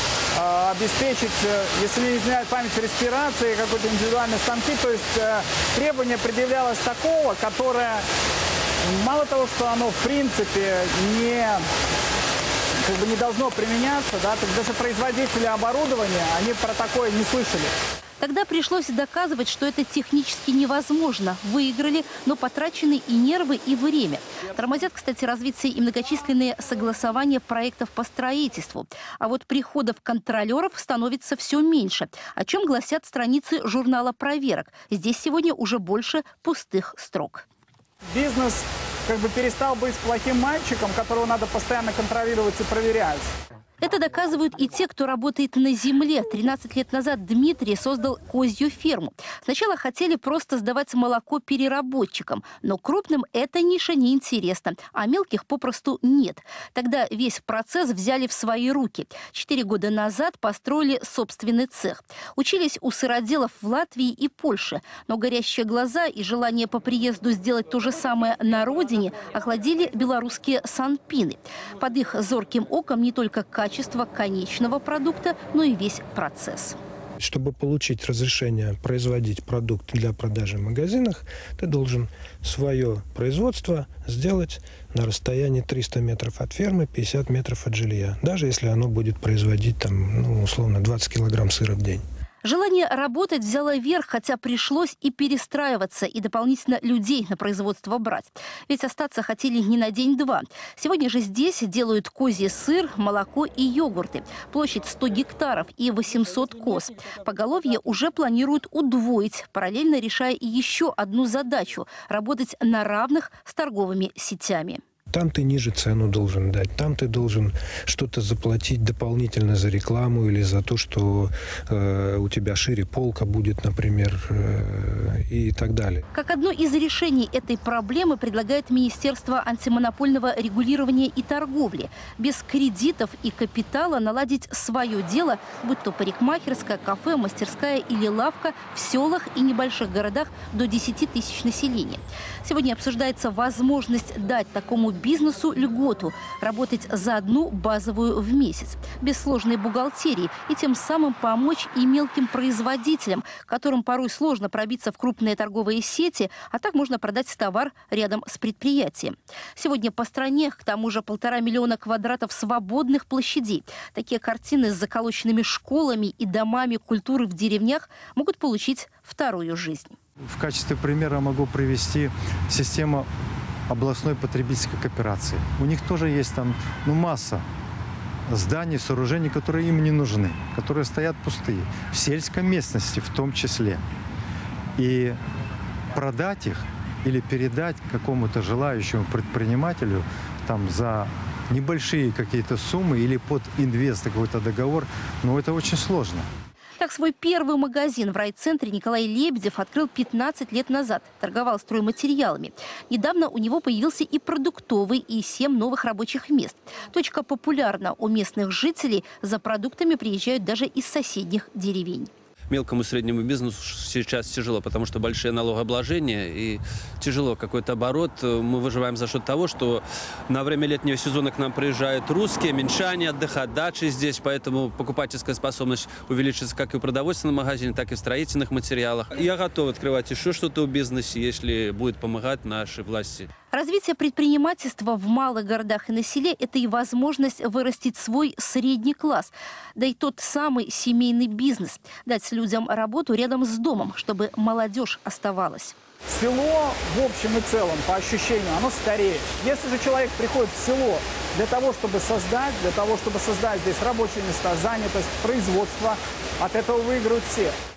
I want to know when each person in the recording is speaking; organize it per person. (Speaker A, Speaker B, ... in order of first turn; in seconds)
Speaker A: 0.3-8.0, 8.8-11.6, 12.8-17.7, 38.1-43.3, 246.1-257.5
Speaker B: 18.2-37.4, 43.8-76.8, 92.4-114.8, 126.1-169.9, 196.8-212.1, 233.5-245.7
Speaker C: 77.2-92.0, 115.1-126.0
Speaker D: 170.3-173.1, 173.7-177.4, 178.3-183.8, 184.8-185.2, 185.9-196.3
Speaker E: 212.5-233.3